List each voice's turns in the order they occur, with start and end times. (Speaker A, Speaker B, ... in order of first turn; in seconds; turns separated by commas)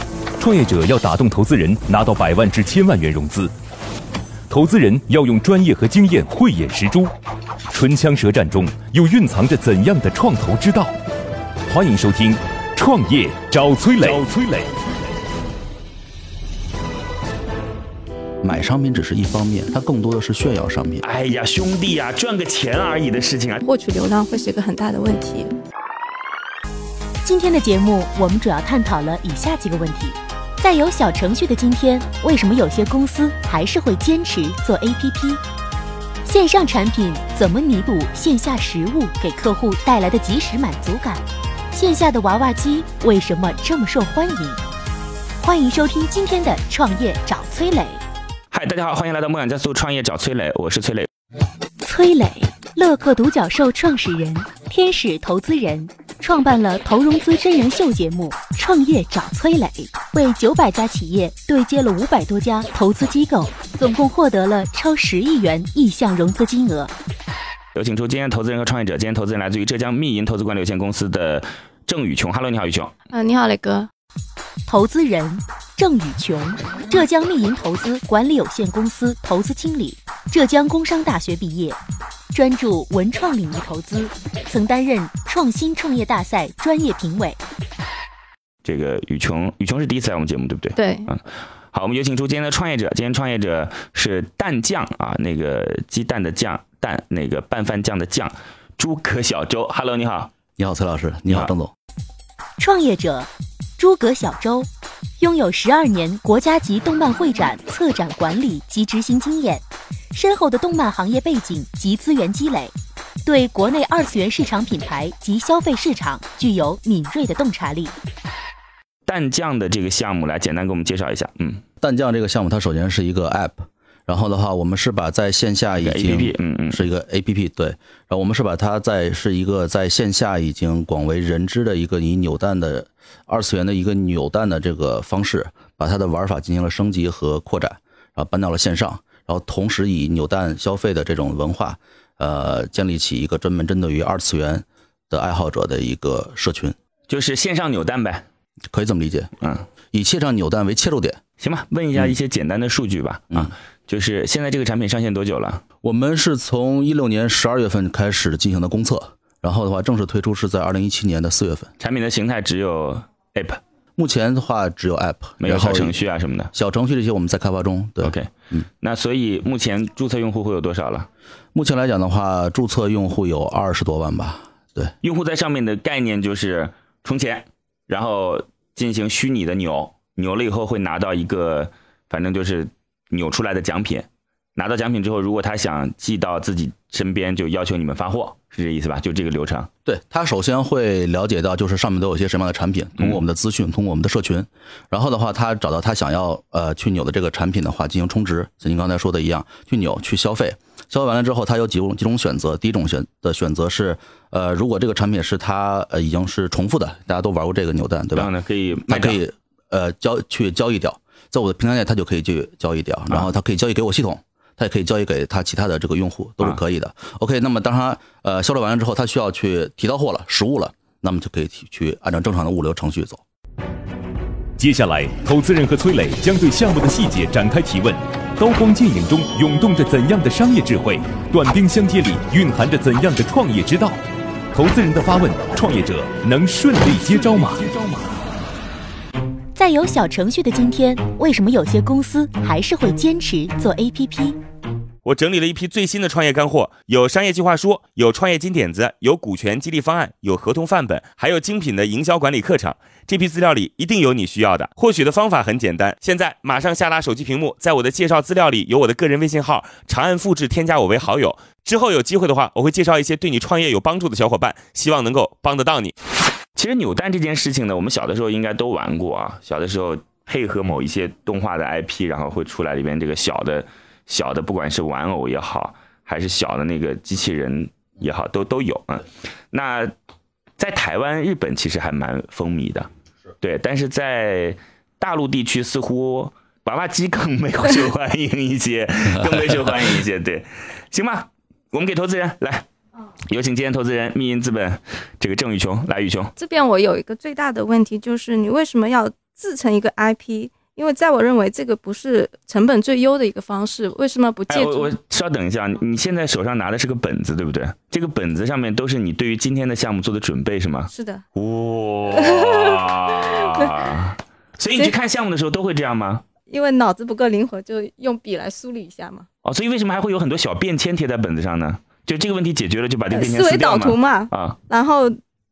Speaker A: 0.4-3.5, Speaker A: 4.5-7.1, Speaker A: 7.7-10.9, Speaker A: 11.7-14.7, Speaker B: 18.4-21.0, Speaker C: 21.0-23.6, Speaker D: 23.6-25.5, Speaker E: 27.2-35.4, Speaker E: 36.2-44.6, Speaker E: 45.4-48.0, Speaker C: 48.5-51.1, Speaker E: 51.8-66.9, Speaker C: 67.8-72.9, Speaker D: 73.1-73.9, Speaker E: 74.7-81.8, Speaker E: 82.3-87.4, Speaker C: 88.6-100.3, Speaker D: 90.8-91.1, Speaker B: 100.6-101.7, Speaker C: 101.3-101.5, Speaker E: 102.6-104.7, Speaker E: 105.2-112.7, Speaker E: 113.2-117.9, Speaker C: 119.1-121.6, Speaker B: 121.8-146.8, Speaker C: 125.8-126.8, Speaker C: 147.1-148.2, Speaker B: 148.7-149.3, Speaker B: 149.9-151.2, Speaker C: 151.4-155.6, Speaker B: 155.8-161.7, Speaker C: 161.8-163.6, Speaker B: 163.9-168.7, Speaker C: 165.4-166.5, Speaker C: 168.0-171.1, Speaker B: 171.5-174.9, Speaker C: 175.0-189.7, Speaker B: 189.8-208.3, Speaker C: 208.1-209.2, Speaker B: 208.9-223.2, Speaker A: 224.6-234.0, Speaker A: 234.5-237.7, Speaker E: 239.5-244.4, Speaker F: 245.0-265.9, Speaker C: 266.6-279.9, Speaker C: 280.6-282.9, Speaker C: 283.4-292.7, Speaker C: 293.3-296.3, Speaker D: 296.4-304.9, Speaker C: 304.5-316.2, Speaker D: 310.9-311.2, Speaker D: 312.1-313.7, Speaker D: 316.5-319.3, Speaker C: 319.4-324.6, Speaker D: 323.1-325.1